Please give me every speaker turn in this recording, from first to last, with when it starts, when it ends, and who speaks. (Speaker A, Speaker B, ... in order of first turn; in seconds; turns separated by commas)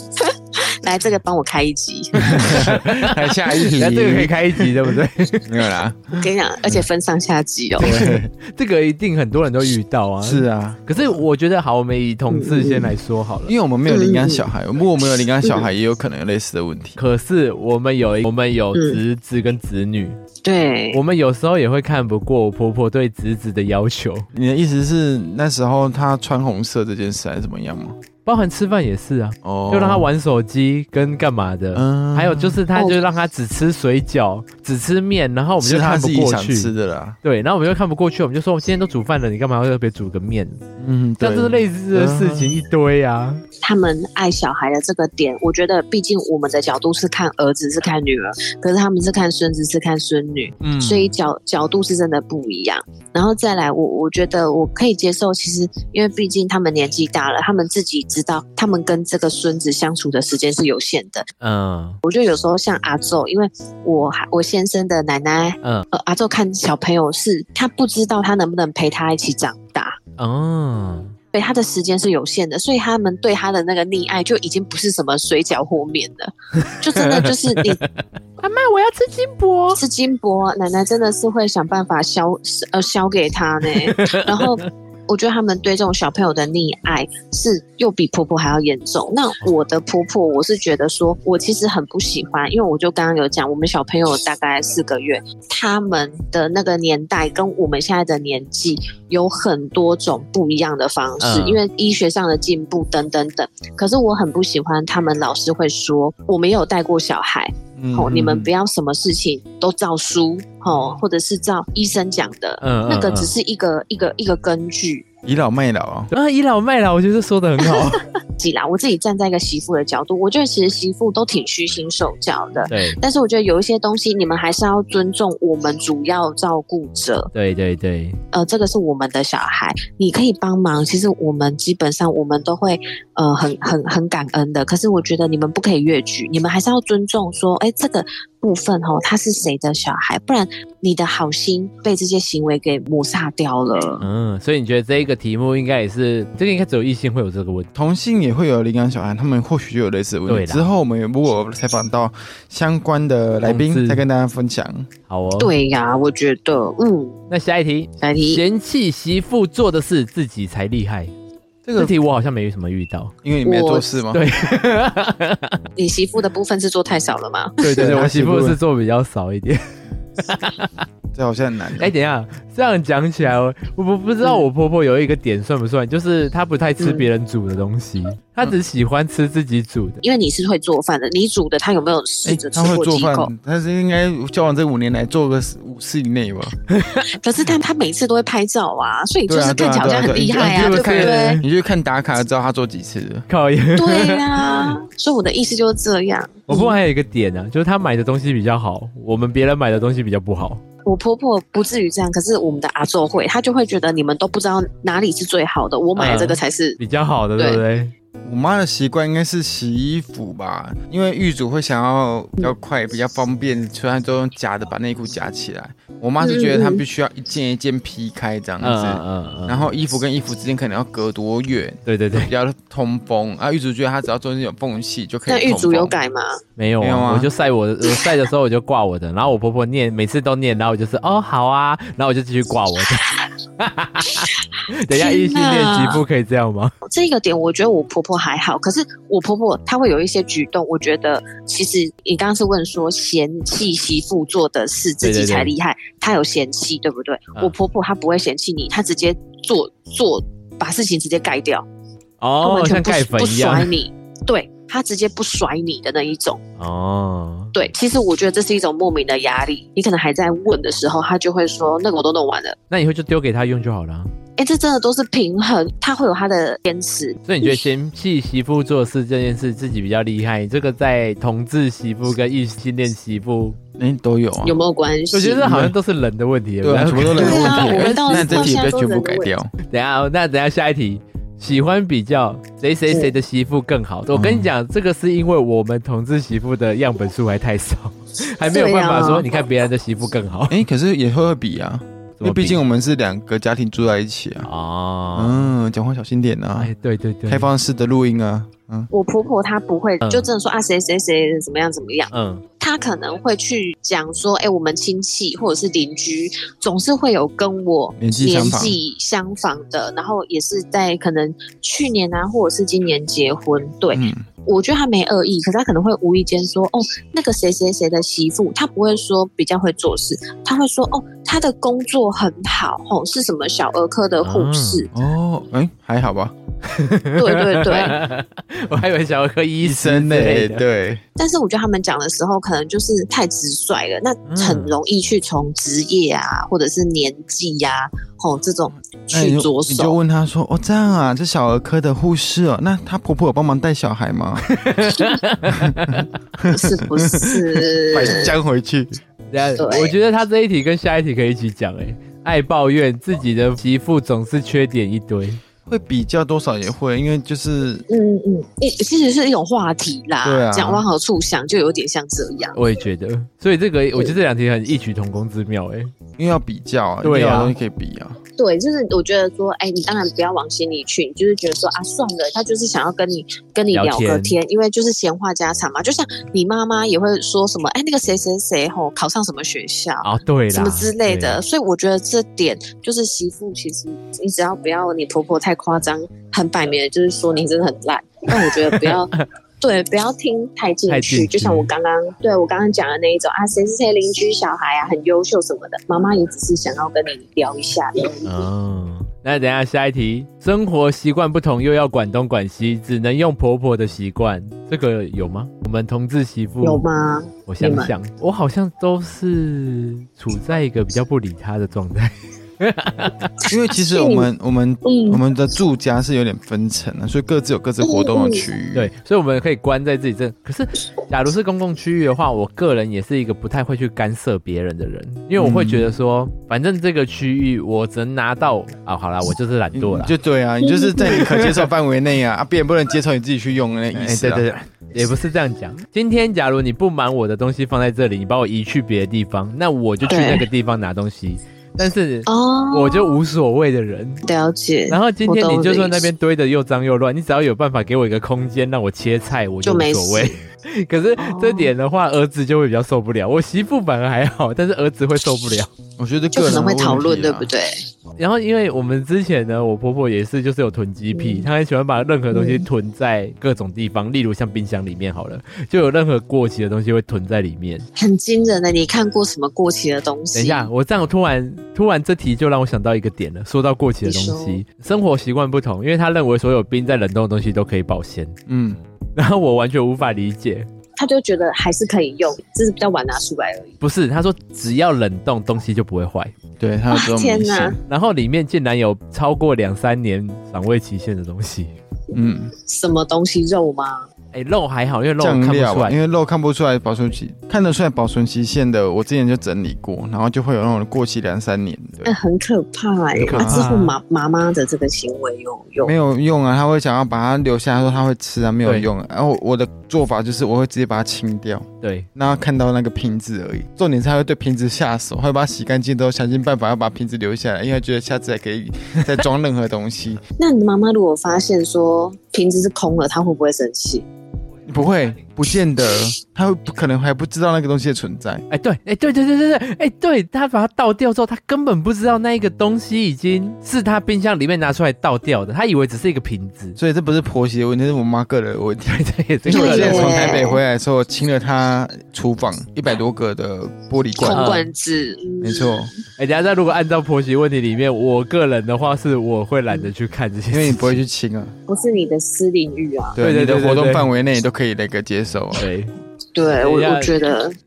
Speaker A: 0.2-2.5, Speaker B: 2.2-4.8, Speaker C: 2.2-5.5, Speaker B: 5.5-6.8, Speaker A: 6.1-8.2, Speaker B: 7.8-8.3, Speaker C: 8.4-13.5, Speaker B: 10.2-11.2, Speaker A: 12.3-12.9, Speaker B: 13.5-17.0, Speaker A: 13.9-14.4, Speaker A: 15.4-15.7, Speaker C: 17.0-20.2, Speaker A: 18.7-19.0, Speaker A: 20.4-21.0, Speaker C: 20.9-24.3, Speaker B: 24.3-28.0, Speaker C: 28.2-36.7, Speaker B: 29.4-30.1, Speaker B: 31.7-32.6, Speaker A: 32.7-33.0, Speaker B: 35.6-37.2, Speaker C: 37.2-40.6, Speaker B: 40.8-42.6, Speaker C: 41.2-43.4, Speaker A: 43.6-61.3, Speaker C: 50.6-51.1, Speaker C: 61.4-62.0, Speaker A: 62.0-70.0, Speaker C: 70.2-71.1, Speaker A: 71.3-77.8, Speaker C: 76.6-79.8, Speaker A: 79.7-115.0, Speaker C: 83.7-84.7, Speaker C: 101.2-101.6, Speaker B: 107.8-108.5, Speaker C: 112.6-113.3, Speaker B: 115.2-116.1, Speaker C: 116.1-118.0, Speaker A: 117.6-127.3, Speaker C: 122.7-123.0, Speaker C: 127.3-128.2, Speaker A: 128.3-144.0, Speaker C: 144.0-147.7, Speaker B: 147.7-154.9, Speaker C: 150.3-150.7, Speaker C: 153.4-154.0, Speaker C: 155.1-155.5, Speaker A: 155.4-157.2, Speaker C: 157.3-161.1, Speaker A: 158.0-158.4, Speaker B: 161.6-161.9, Speaker C: 161.8-163.1, Speaker B: 163.2-164.2, Speaker A: 163.4-163.9, Speaker C: 164.1-165.6, Speaker A: 165.8-167.9, Speaker C: 167.6-169.6, Speaker B: 167.8-168.6, Speaker C: 170.2-170.8, Speaker B: 171.1-171.9, Speaker C: 171.8-180.0, Speaker A: 176.8-177.1, Speaker A: 180.0-183.3, Speaker B: 182.2-186.6, Speaker C: 186.7-187.1, Speaker A: 187.1-191.4, Speaker B: 189.3-193.3, Speaker C: 190.3-191.4, Speaker C: 193.3-194.8, Speaker A: 193.8-196.8, Speaker C: 196.5-200.6, Speaker A: 200.8-206.8, Speaker C: 205.9-207.9, Speaker A: 207.4-207.6, Speaker B: 208.2-225.9, Speaker A: 216.2-216.8, Speaker C: 218.6-219.7, Speaker C: 221.8-222.3, Speaker A: 225.3-226.4, Speaker C: 226.6-236.7, Speaker B: 226.8-227.3, Speaker A: 234.9-236.0, Speaker A: 236.8-251.7, Speaker C: 245.0-245.5, Speaker C: 252.2-253.7, Speaker A: 252.4-256.4, Speaker C: 256.6-257.5, Speaker A: 257.5-262.6, Speaker C: 262.7-264.1, Speaker A: 264.4-267.6, Speaker C: 267.2-273.6, Speaker B: 273.8-274.6, Speaker A: 274.4-275.5, Speaker C: 275.1-278.6, Speaker B: 275.4-275.7, Speaker B: 276.6-279.5, Speaker A: 277.1-279.3, Speaker C: 279.7-290.6, Speaker B: 284.1-284.5, Speaker A: 288.4-289.3, Speaker B: 290.5-294.5, Speaker C: 292.2-292.6, Speaker C: 294.4-295.5, Speaker B: 295.1-296.7, Speaker C: 296.6-297.5, Speaker B: 297.3-298.9, Speaker A: 298.9-324.9, Speaker C: 300.0-300.3, Speaker C: 302.1-302.4, Speaker B: 308.0-308.8, Speaker B: 313.9-314.2, Speaker C: 324.2-324.8, Speaker B: 324.9-326.3, Speaker C: 326.6-330.6, Speaker A: 327.2-328.0, Speaker B: 329.6-331.0, Speaker A: 331.2-340.0, Speaker C: 334.3-334.7, Speaker B: 339.1-344.4, Speaker C: 344.4-346.1, Speaker B: 345.5-349.0, Speaker A: 346.5-348.4, Speaker C: 349.3-355.4, Speaker A: 349.6-349.9, Speaker B: 355.7-357.8, Speaker A: 357.9-362.6, Speaker B: 360.2-360.8, Speaker C: 362.5-365.9, Speaker B: 366.2-368.2, Speaker C: 367.0-367.5, Speaker A: 368.4-398.4, Speaker C: 373.7-374.4, Speaker C: 380.0-381.4, Speaker C: 388.3-389.2, Speaker C: 390.9-391.7, Speaker C: 398.2-406.8, Speaker A: 406.6-407.9, Speaker C: 407.4-413.4, Speaker A: 413.5-414.3, Speaker B: 413.5-418.9, Speaker A: 414.8-415.2, Speaker A: 417.8-418.5, Speaker C: 418.7-430.1, Speaker B: 425.4-425.9, Speaker B: 429.7-434.5, Speaker A: 430.6-431.2, Speaker C: 431.0-431.6, Speaker C: 433.9-444.2, Speaker A: 440.1-440.4, Speaker A: 442.3-443.2, Speaker A: 444.2-446.1, Speaker C: 444.9-455.7, Speaker A: 449.6-450.4, Speaker A: 451.2-451.7, Speaker B: 456.0-457.5, Speaker A: 456.3-457.8, Speaker C: 458.2-467.9, Speaker A: 461.1-461.5, Speaker A: 462.3-462.6, Speaker A: 467.9-470.7, Speaker C: 470.3-478.4, Speaker A: 474.0-474.6, Speaker B: 478.5-478.8, Speaker C: 479.1-480.7, Speaker A: 480.9-483.8, Speaker C: 483.8-486.3, Speaker B: 486.6-487.8, Speaker A: 486.9-487.8, Speaker C: 487.9-491.7, Speaker B: 492.1-492.5, Speaker A: 492.6-494.1, Speaker C: 494.3-496.0, Speaker B: 495.2-502.1, Speaker A: 502.0-505.9, Speaker C: 503.2-503.9, Speaker B: 503.3-503.7, Speaker B: 505.8-520.2, Speaker C: 511.8-512.1, Speaker A: 520.4-524.0, Speaker B: 524.7-528.4, Speaker C: 528.5-536.8, Speaker B: 536.8-544.5, Speaker C: 538.9-540.3, Speaker A: 539.5-540.6, Speaker A: 544.2-545.9, Speaker C: 544.3-544.7, Speaker B: 545.4-545.9, Speaker C: 546.2-551.0, Speaker B: 550.5-551.5, Speaker A: 551.7-553.2, Speaker B: 553.1-555.6, Speaker C: 553.2-554.1, Speaker C: 555.5-555.9, Speaker A: 556.3-557.6, Speaker C: 556.5-557.2